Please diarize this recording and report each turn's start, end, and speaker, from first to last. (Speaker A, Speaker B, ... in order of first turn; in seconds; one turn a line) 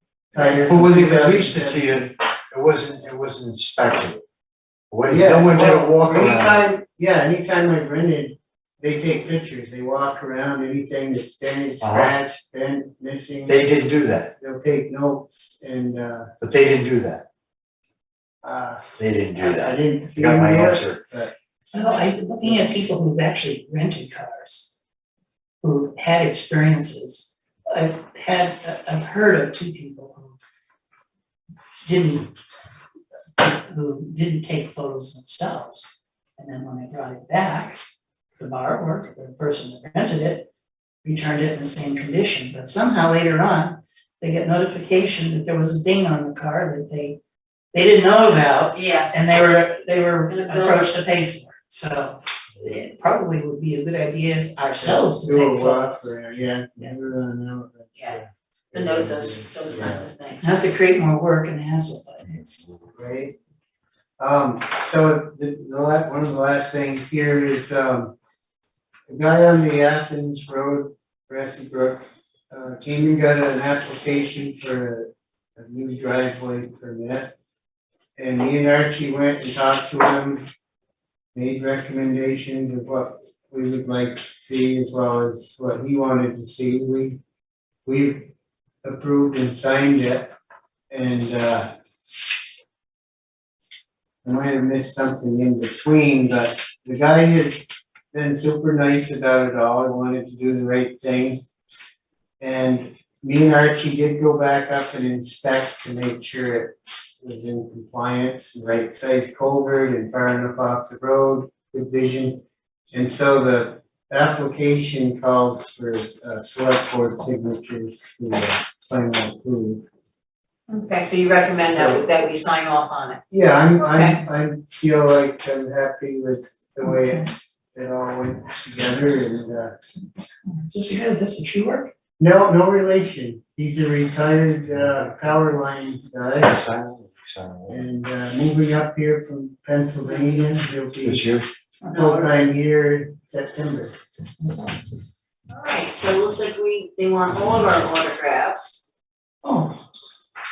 Speaker A: 0.3-2.1
Speaker B: 0.6-4.2
Speaker B: 4.9-6.7
Speaker A: 5.1-13.7
Speaker B: 11.8-12.2
Speaker B: 13.5-14.3
Speaker A: 14.3-16.3
Speaker B: 16.4-17.2
Speaker A: 18.4-21.3
Speaker B: 19.0-21.0
Speaker C: 21.7-24.8
Speaker C: 25.6-30.4
Speaker C: 31.8-32.3
Speaker C: 33.4-37.8
Speaker C: 38.4-40.5
Speaker C: 41.0-47.2
Speaker C: 47.7-56.1
Speaker D: 48.3-49.1
Speaker D: 50.3-50.9
Speaker A: 54.8-60.1
Speaker D: 58.7-60.6
Speaker C: 60.4-62.7
Speaker A: 62.9-63.3
Speaker A: 64.2-68.2
Speaker A: 69.1-77.3
Speaker A: 78.2-80.5
Speaker A: 81.3-87.2
Speaker A: 87.8-90.3
Speaker A: 90.9-91.7
Speaker A: 94.2-101.4
Speaker A: 102.4-112.4
Speaker A: 112.9-119.8
Speaker D: 120.7-123.2
Speaker A: 121.6-122.0
Speaker A: 123.3-129.8
Speaker D: 123.8-124.2
Speaker C: 126.8-127.3
Speaker C: 130.4-131.9
Speaker A: 132.2-136.5
Speaker B: 136.4-137.8
Speaker A: 137.7-141.3
Speaker C: 140.1-140.6
Speaker B: 141.0-141.5
Speaker C: 141.8-142.3
Speaker A: 141.9-143.9
Speaker D: 145.5-148.8
Speaker C: 149.4-149.8